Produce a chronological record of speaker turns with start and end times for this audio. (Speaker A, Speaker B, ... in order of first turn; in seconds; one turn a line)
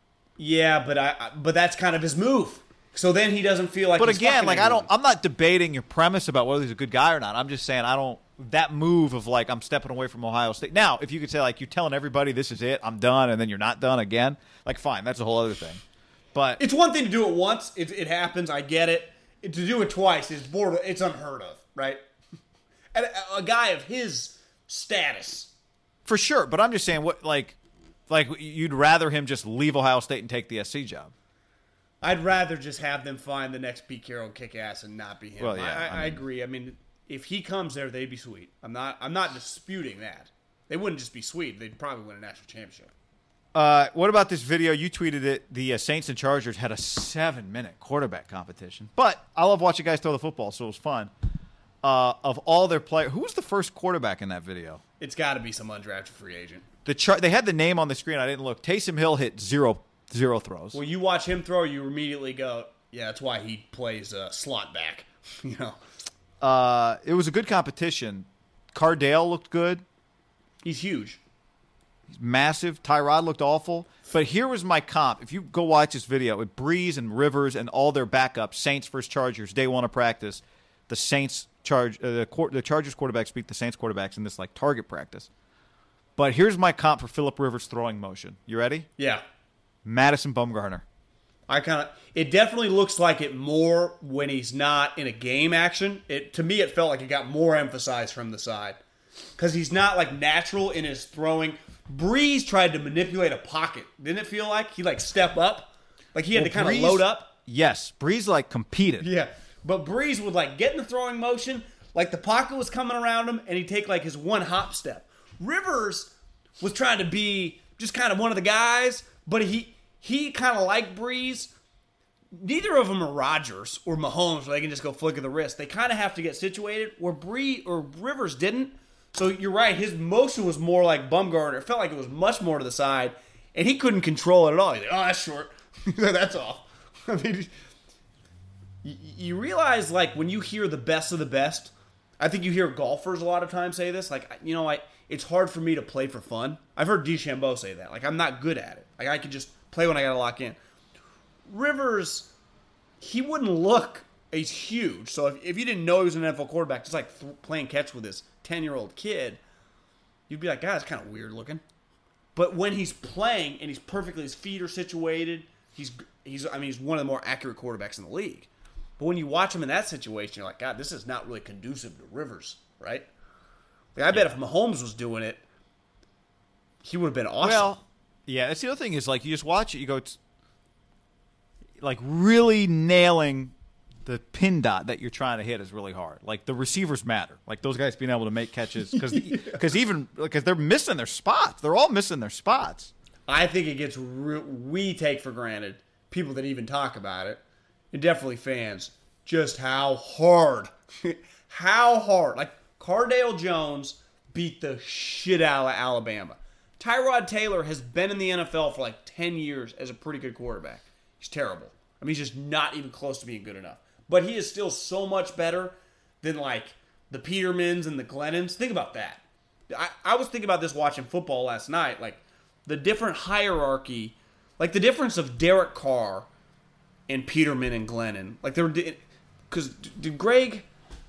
Speaker A: 0.4-4.9
Speaker B: 4.0-15.8
Speaker B: 16.3-16.6
Speaker A: 16.6-22.0
Speaker A: 22.9-25.5
Speaker B: 26.0-27.6
Speaker B: 28.1-31.1
Speaker A: 32.0-42.9
Speaker B: 35.4-36.2
Speaker B: 43.5-51.1
Speaker B: 51.8-54.8
Speaker A: 55.0-56.6
Speaker B: 56.8-60.8
Speaker A: 60.7-65.8
Speaker B: 66.4-69.8
Speaker A: 70.6-71.2
Speaker B: 72.1-85.3
Speaker B: 86.2-88.9
Speaker A: 89.0-89.2
Speaker B: 89.8-90.8
Speaker A: 91.5-98.8
Speaker A: 99.4-107.3
Speaker B: 106.3-109.1
Speaker A: 109.0-121.5
Speaker A: 122.3-137.5
Speaker A: 138.8-150.6
Speaker A: 151.5-152.3
Speaker A: 153.0-159.4
Speaker A: 160.3-161.6
Speaker A: 162.4-173.1
Speaker A: 173.9-175.4
Speaker A: 176.8-177.8
Speaker B: 177.4-180.2
Speaker B: 181.8-183.5
Speaker B: 184.0-192.9
Speaker A: 188.9-189.6
Speaker A: 193.3-197.4
Speaker A: 197.9-226.3
Speaker A: 227.1-230.7